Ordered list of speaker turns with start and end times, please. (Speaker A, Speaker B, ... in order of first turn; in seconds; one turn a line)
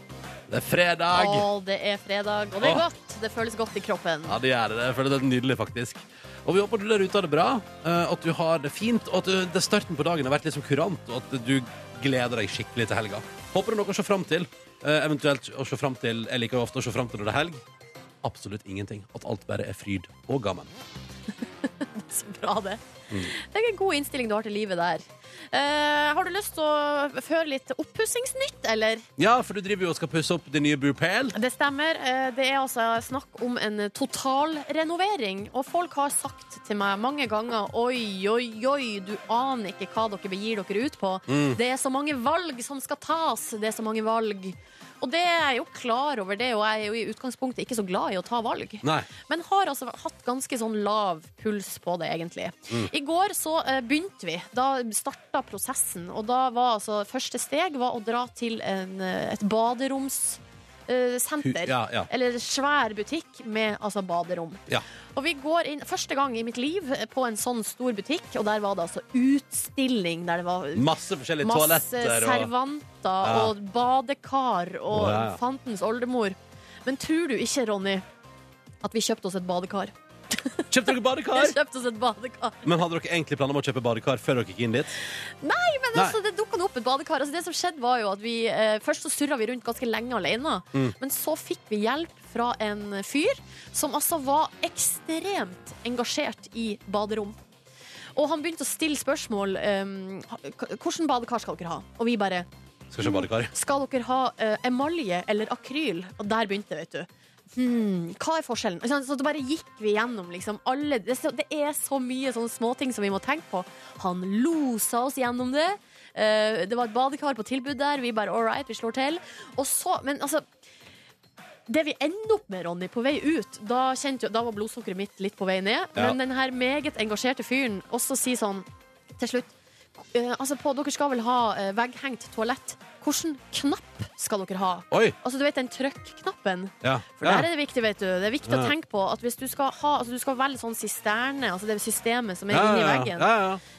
Speaker A: 0.5-1.5
Speaker B: 1.1-4.4
Speaker A: 2.6-2.8
Speaker A: 4.3-17.6
Speaker A: 18.2-20.7
Speaker B: 21.8-29.1
Speaker A: 29.2-31.4
Speaker B: 31.3-64.6
Speaker A: 41.3-41.6
Speaker A: 48.8-49.1
Speaker A: 61.4-62.1
Speaker B: 65.2-78.0
Speaker A: 70.8-72.5
Speaker A: 73.2-73.5
Speaker A: 74.9-75.4
Speaker B: 78.8-80.7
Speaker A: 80.7-81.6
Speaker B: 81.3-82.7
Speaker A: 82.7-84.9
Speaker B: 85.4-97.4
Speaker B: 98.2-102.5
Speaker A: 102.9-103.5
Speaker B: 103.0-120.5
Speaker B: 121.7-128.7
Speaker B: 129.2-143.3
Speaker A: 134.9-135.2
Speaker A: 136.8-137.5
Speaker A: 138.4-138.7
Speaker A: 142.5-143.6